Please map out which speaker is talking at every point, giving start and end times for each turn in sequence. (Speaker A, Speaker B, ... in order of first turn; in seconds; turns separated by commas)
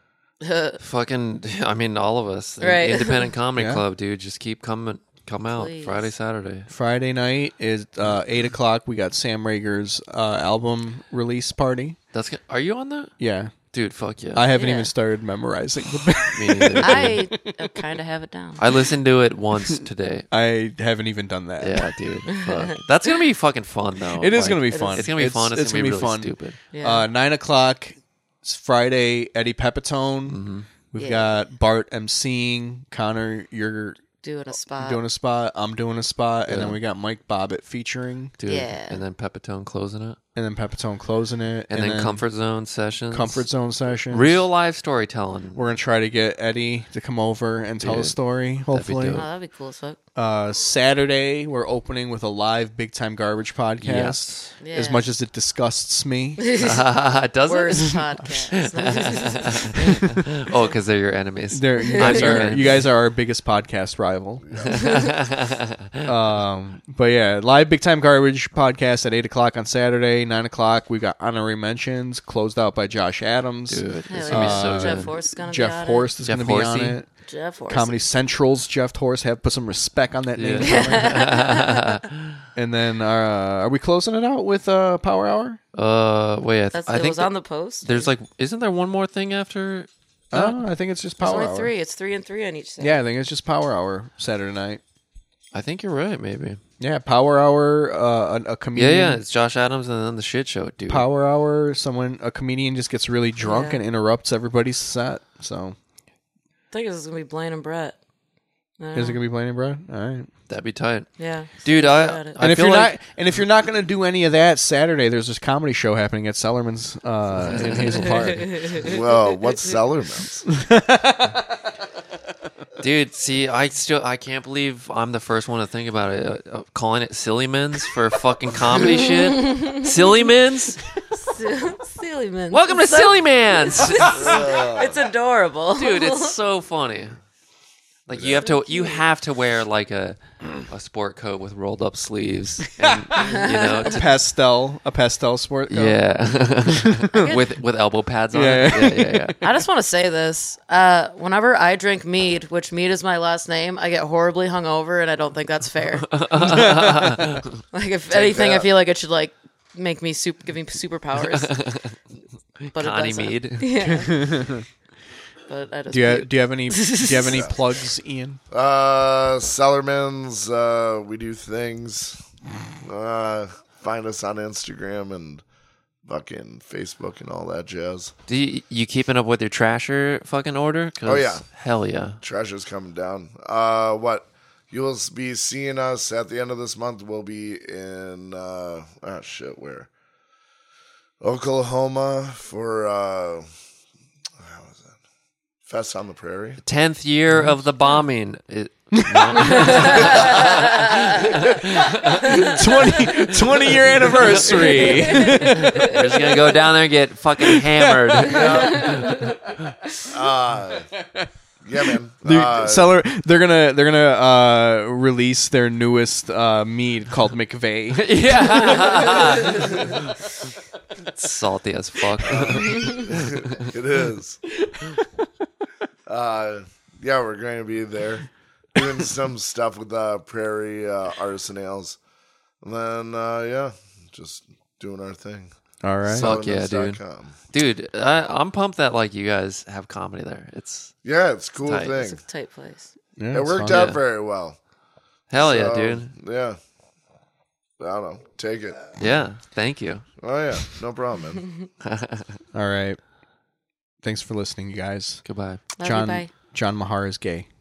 Speaker A: 0.4-0.8, Speaker B: 0.8-6.7, Speaker A: 2.6-3.3, Speaker C: 3.6-3.8, Speaker A: 5.5-6.1, Speaker C: 6.7-12.0, Speaker B: 12.1-13.1, Speaker C: 13.2-13.6, Speaker B: 13.7-14.4, Speaker C: 14.3-17.7, Speaker A: 14.5-14.9, Speaker B: 16.3-17.2, Speaker A: 16.8-18.6, Speaker B: 18.6-20.3, Speaker C: 20.3-21.9, Speaker B: 21.6-26.6, Speaker A: 22.3-22.8, Speaker C: 24.2-30.4, Speaker A: 24.7-25.1, Speaker A: 26.7-27.1, Speaker B: 30.3-30.7, Speaker C: 30.9-34.0, Speaker A: 31.0-31.3, Speaker A: 34.2-35.0, Speaker C: 34.8-38.4, Speaker B: 36.5-36.8, Speaker B: 38.4-40.2, Speaker A: 38.5-39.0, Speaker C: 40.4-42.2, Speaker B: 41.7-43.4, Speaker C: 43.1-44.5, Speaker B: 44.1-45.6, Speaker C: 45.5-49.2, Speaker B: 47.8-48.2, Speaker B: 48.7-49.3, Speaker A: 49.1-50.0, Speaker C: 50.2-56.5, Speaker B: 53.8-54.5, Speaker A: 54.6-55.1, Speaker A: 56.4-56.9, Speaker B: 56.6-58.0, Speaker A: 57.5-59.8, Speaker C: 58.0-58.5, Speaker B: 58.5-62.8, Speaker C: 59.8-60.3, Speaker C: 61.5-64.4, Speaker A: 61.8-62.6, Speaker D: 64.4-64.9, Speaker B: 64.7-66.1, Speaker A: 64.7-65.1, Speaker C: 66.0-77.1, Speaker B: 73.7-75.1, Speaker A: 74.1-76.1, Speaker B: 76.2-77.0, Speaker A: 77.3-78.0, Speaker C: 77.7-81.2, Speaker B: 80.4-82.4, Speaker A: 80.6-81.8, Speaker C: 82.6-85.6, Speaker B: 85.7-87.3, Speaker A: 86.7-88.1, Speaker B: 87.8-90.5, Speaker C: 90.3-91.7, Speaker A: 91.2-93.0, Speaker C: 92.8-94.8, Speaker B: 95.5-96.6, Speaker C: 96.8-99.2, Speaker B: 98.8-101.1, Speaker C: 100.9-105.8, Speaker A: 103.4-103.8, Speaker A: 106.7-108.0, Speaker A: 108.8-109.2, Speaker C: 109.0-110.3, Speaker B: 110.5-111.1, Speaker A: 111.2-112.4, Speaker B: 111.6-113.0, Speaker C: 112.4-118.8, Speaker B: 117.5-118.1, Speaker A: 118.2-118.8, Speaker D: 118.8-120.5, Speaker C: 120.5-121.6, Speaker B: 122.8-130.8, Speaker A: 129.2-129.9, Speaker A: 131.1-136.3, Speaker B: 132.5-134.4, Speaker D: 134.0-135.1, Speaker B: 135.8-137.2, Speaker B: 138.1-144.1, Speaker D: 138.1-138.5, Speaker A: 138.4-139.0, Speaker A: 143.2-143.9, Speaker C: 143.8-146.0, Speaker B: 145.7-149.4, Speaker C: 146.6-147.3, Speaker A: 147.1-147.4, Speaker C: 148.3-149.5, Speaker A: 149.4-156.1, Speaker B: 156.1-157.5, Speaker C: 156.4-157.4, Speaker A: 157.7-161.5, Speaker D: 158.1-158.7, Speaker B: 161.2-162.0, Speaker B: 162.6-163.7, Speaker A: 162.7-164.3, Speaker C: 163.9-164.7, Speaker A: 165.5-167.4, Speaker C: 165.9-168.4, Speaker D: 167.3-167.5, Speaker D: 168.5-172.2, Speaker D: 172.8-175.4, Speaker D: 176.1-178.1, Speaker B: 178.3-182.2, Speaker D: 181.0-181.4, Speaker D: 182.2-189.9, Speaker D: 191.2-193.5, Speaker D: 194.4-194.9, Speaker D: 195.7-196.6, Speaker B: 196.6-209.1, Speaker C: 198.9-206.5, Speaker A: 199.4-201.2, Speaker D: 200.0-200.5, Speaker A: 202.2-202.6, Speaker A: 204.4-206.4, Speaker C: 207.4-208.5, Speaker A: 208.2-209.4, Speaker D: 208.3-209.1, Speaker D: 210.1-210.9, Speaker C: 211.0-211.3, Speaker D: 211.6-212.9, Speaker C: 211.9-220.0, Speaker B: 217.9-220.2, Speaker A: 218.8-219.7, Speaker B: 221.1-223.7, Speaker D: 222.2-224.4, Speaker A: 222.7-223.0, Speaker C: 224.7-225.0, Speaker D: 226.1-232.0, Speaker D: 232.6-235.5, Speaker C: 235.8-236.3, Speaker D: 236.1-237.3, Speaker B: 236.2-237.0, Speaker B: 237.5-240.9, Speaker D: 241.0-242.2, Speaker B: 241.7-241.9, Speaker A: 241.9-242.9, Speaker C: 243.2-243.8, Speaker D: 243.3-244.6, Speaker B: 243.7-244.0, Speaker B: 245.3-246.1, Speaker D: 245.4-246.6, Speaker D: 247.8-248.9, Speaker B: 249.0-250.1, Speaker D: 250.2-251.5, Speaker B: 251.8-252.4, Speaker C: 252.5-253.0, Speaker C: 254.0-255.2, Speaker B: 255.2-255.6, Speaker A: 255.8-256.3, Speaker C: 255.8-257.5